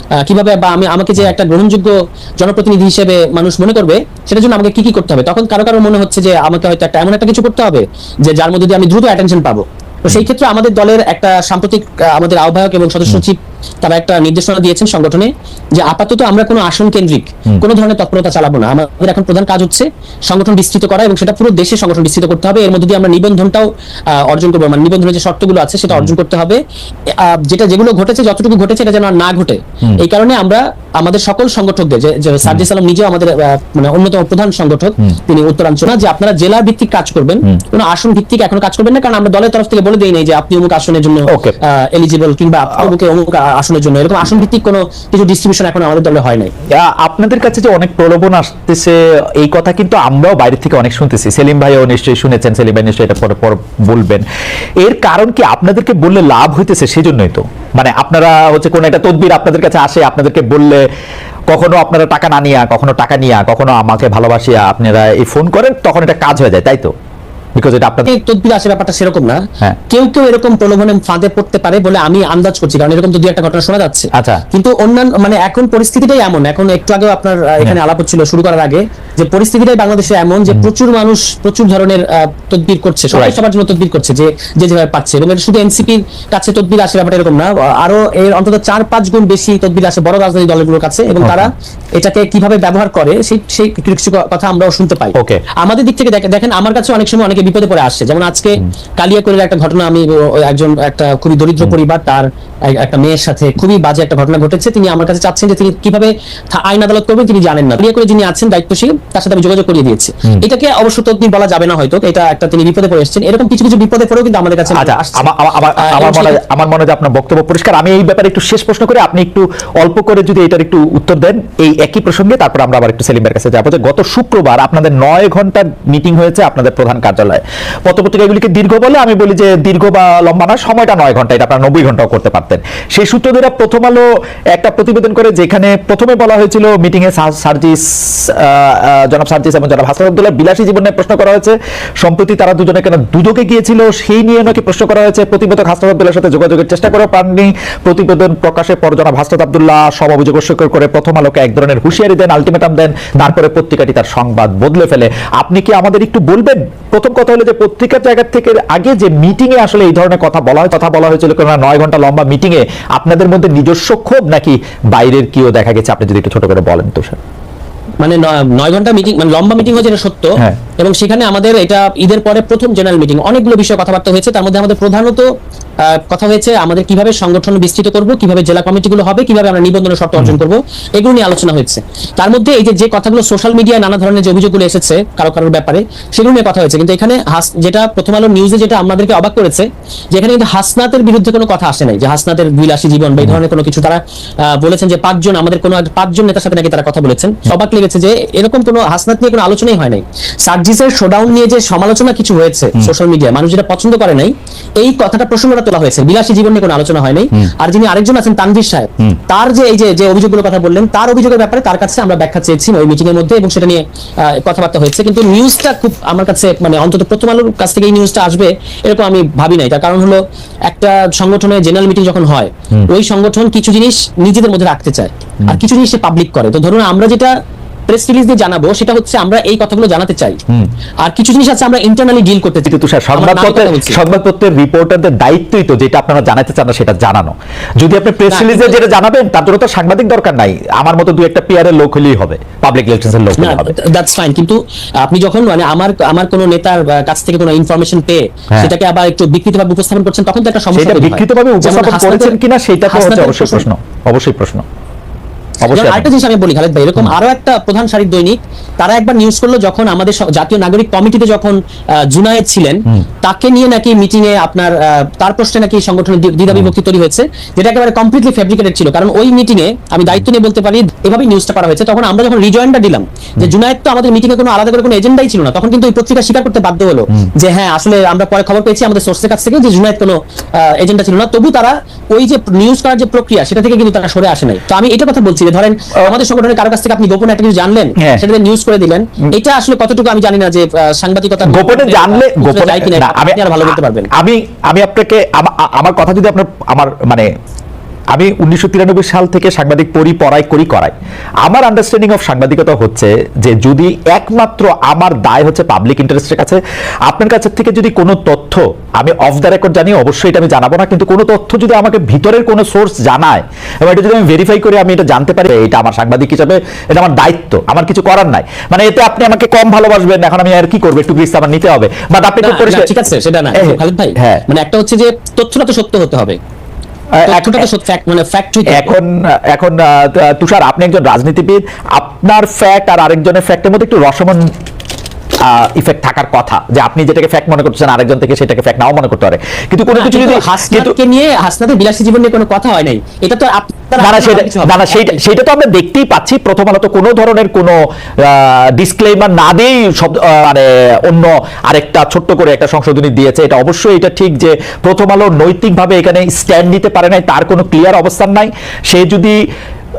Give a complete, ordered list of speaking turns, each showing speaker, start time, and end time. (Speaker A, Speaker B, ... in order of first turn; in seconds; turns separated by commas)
Speaker A: 0.2-46.5, Speaker B: 41.3-41.5, Speaker B: 46.8-54.2, Speaker B: 54.8-60.9, Speaker B: 61.5-66.9, Speaker B: 67.6-68.1, Speaker A: 68.0-116.4, Speaker B: 74.1-74.4, Speaker B: 91.2-91.5, Speaker B: 95.2-95.4, Speaker B: 114.7-167.2, Speaker A: 168.0-175.3, Speaker A: 175.8-227.3, Speaker A: 227.9-230.4, Speaker A: 231.0-234.0, Speaker B: 232.7-243.7, Speaker A: 238.3-238.8, Speaker A: 243.4-252.4, Speaker B: 250.7-254.6, Speaker A: 252.9-253.7, Speaker B: 255.6-256.1, Speaker A: 255.7-294.1, Speaker B: 291.5-297.3, Speaker B: 298.1-300.9, Speaker B: 301.4-322.9, Speaker A: 322.4-326.4, Speaker B: 323.6-324.4, Speaker B: 327.1-327.7, Speaker A: 327.3-328.9, Speaker B: 328.7-334.5, Speaker B: 335.4-340.9, Speaker A: 339.9-345.2, Speaker B: 344.0-359.4